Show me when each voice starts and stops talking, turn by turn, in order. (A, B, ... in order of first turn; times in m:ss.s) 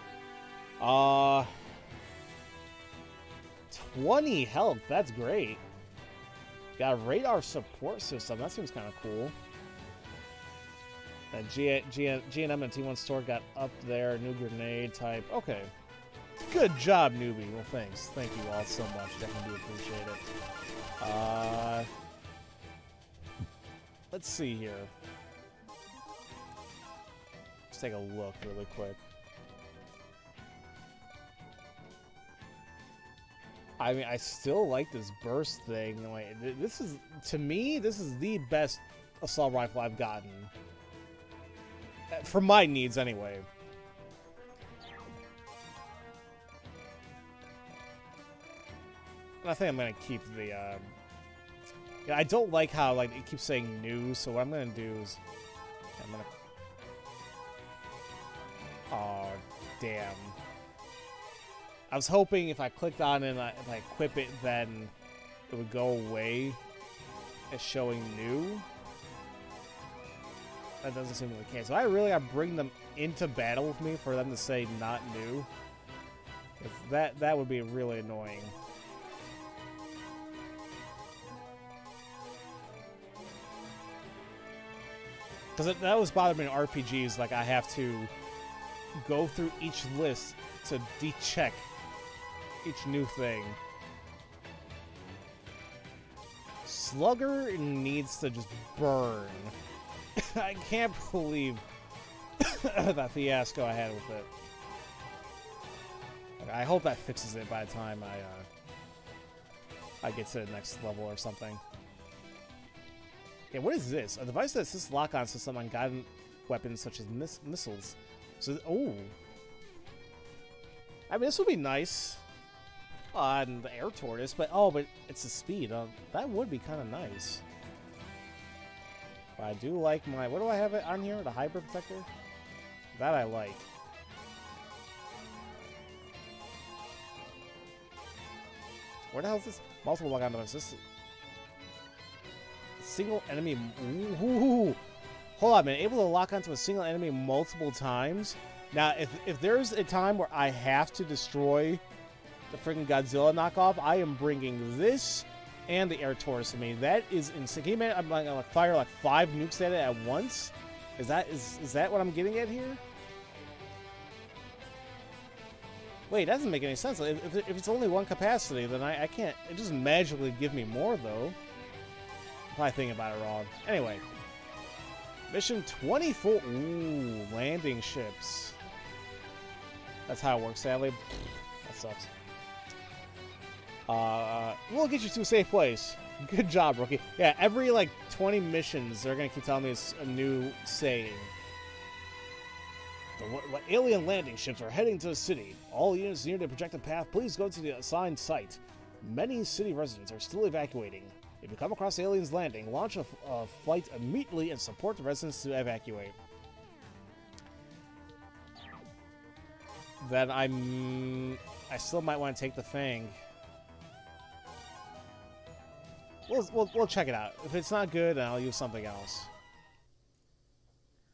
0:00.8-0:01.5 A
0:03.7-0:05.6 A
0:06.8-0:09.4 A
0:11.3-0:15.7 A
0:16.4-0:20.2 A
0:21.0-0:21.9 A
0:24.1-0:24.9 A
0:27.7-0:29.0 A
0:33.8-0:40.5 A
0:42.1-0:43.5 A
0:49.4-0:50.9 A
0:52.0-0:55.2 A
0:56.0-0:56.3 A
0:58.9-1:00.4 A
1:01.9-1:04.9 A
1:05.5-1:06.6 A
1:07.5-1:08.6 A
1:10.8-1:15.5 A
1:16.6-1:18.6 A
1:25.6-1:28.1 A
1:29.0-1:31.7 A
1:32.6-1:33.6 A
1:36.6-1:39.6 A
1:40.2-1:41.6 A
1:42.4-1:44.3 A
1:46.4-1:48.5 A
1:50.0-1:51.6 A
1:53.5-1:59.1 A
2:01.1-2:02.2 A
2:03.1-2:07.4 A
2:09.4-2:12.1 A
2:12.9-2:13.7 A
2:19.1-2:20.8 A
2:22.8-2:24.8 A
2:25.4-2:31.8 A
2:32.5-2:42.8 A
2:46.1-2:51.4 A
2:52.5-2:54.0 A
2:55.3-2:58.6 A
3:00.1-3:02.1 A
3:03.9-3:11.3 A
3:13.2-3:26.2 A
3:30.0-3:33.2 A
3:36.3-3:39.3 A